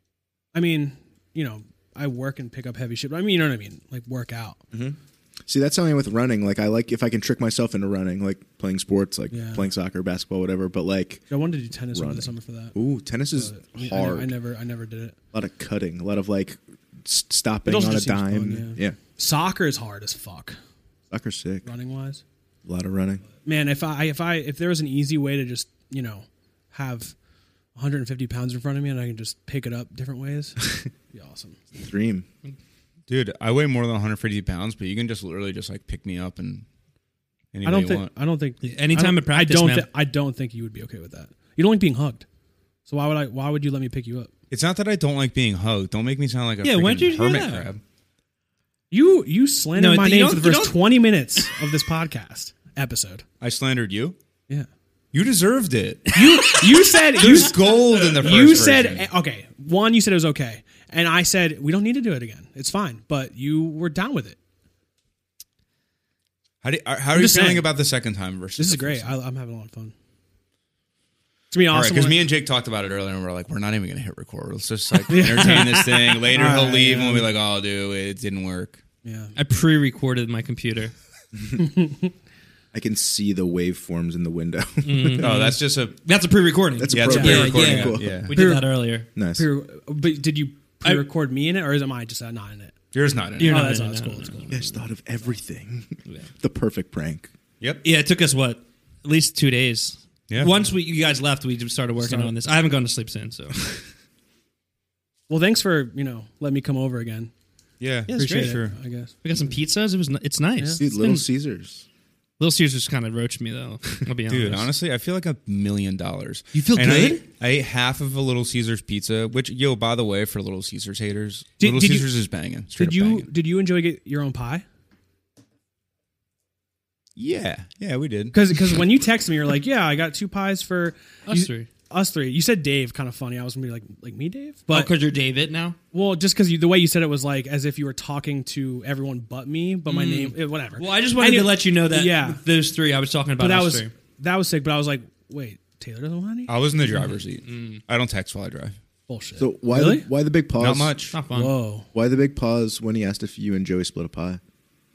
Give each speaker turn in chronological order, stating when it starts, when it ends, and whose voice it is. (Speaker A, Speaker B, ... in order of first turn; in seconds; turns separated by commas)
Speaker A: 0.5-4.6, Speaker B: 4.7-11.3, Speaker A: 9.3-9.6, Speaker A: 11.3-12.7, Speaker B: 11.9-14.3, Speaker A: 13.3-15.2, Speaker B: 15.3-19.0, Speaker A: 17.6-20.6, Speaker B: 21.1-21.7, Speaker A: 21.6-22.2, Speaker B: 22.6-23.2, Speaker A: 23.4-27.1, Speaker A: 27.7-31.6, Speaker B: 31.8-32.2, Speaker C: 33.1-36.6, Speaker C: 37.5-38.1, Speaker A: 37.6-42.2, Speaker D: 38.6-39.9, Speaker A: 42.9-44.3, Speaker C: 44.5-47.8, Speaker D: 46.6-47.7, Speaker A: 48.9-53.2, Speaker D: 49.7-50.9, Speaker C: 53.4-54.1, Speaker C: 55.1-56.1, Speaker D: 56.1-56.7, Speaker A: 56.1-64.4, Speaker C: 57.1-59.1, Speaker C: 66.6-69.1, Speaker A: 67.1-67.7, Speaker A: 68.6-69.9, Speaker A: 71.5-72.2, Speaker C: 71.7-78.8, Speaker A: 75.1-77.3, Speaker A: 79.0-79.3, Speaker D: 79.3-80.9, Speaker A: 81.6-82.1, Speaker B: 82.7-85.3, Speaker D: 84.8-89.1, Speaker C: 85.2-86.0, Speaker B: 86.8-88.3, Speaker C: 86.9-88.3, Speaker A: 87.0-87.6, Speaker A: 88.3-92.7, Speaker B: 89.1-89.5, Speaker C: 92.9-93.7, Speaker D: 93.4-94.7, Speaker A: 93.4-94.6, Speaker B: 94.5-97.3, Speaker D: 97.8-103.7, Speaker C: 100.3-100.5, Speaker A: 102.0-102.3, Speaker A: 105.3-107.3, Speaker C: 107.8-108.8, Speaker D: 108.1-108.6, Speaker A: 108.2-109.2, Speaker D: 109.2-111.2, Speaker A: 110.6-110.8, Speaker B: 110.8-111.8, Speaker D: 112.4-114.7, Speaker C: 114.3-123.3, Speaker D: 116.5-117.2, Speaker A: 121.6-122.0, Speaker A: 122.8-124.6, Speaker C: 127.2-128.8, Speaker A: 128.3-134.9, Speaker D: 131.3-131.7, Speaker D: 134.7-135.8, Speaker A: 135.9-142.4, Speaker D: 139.8-143.9, Speaker A: 143.4-146.5, Speaker C: 146.5-148.8, Speaker D: 147.4-147.8, Speaker A: 149.1-150.1, Speaker B: 149.4-150.9, Speaker C: 150.6-151.1, Speaker D: 151.1-151.6, Speaker A: 151.3-151.9, Speaker B: 151.9-154.4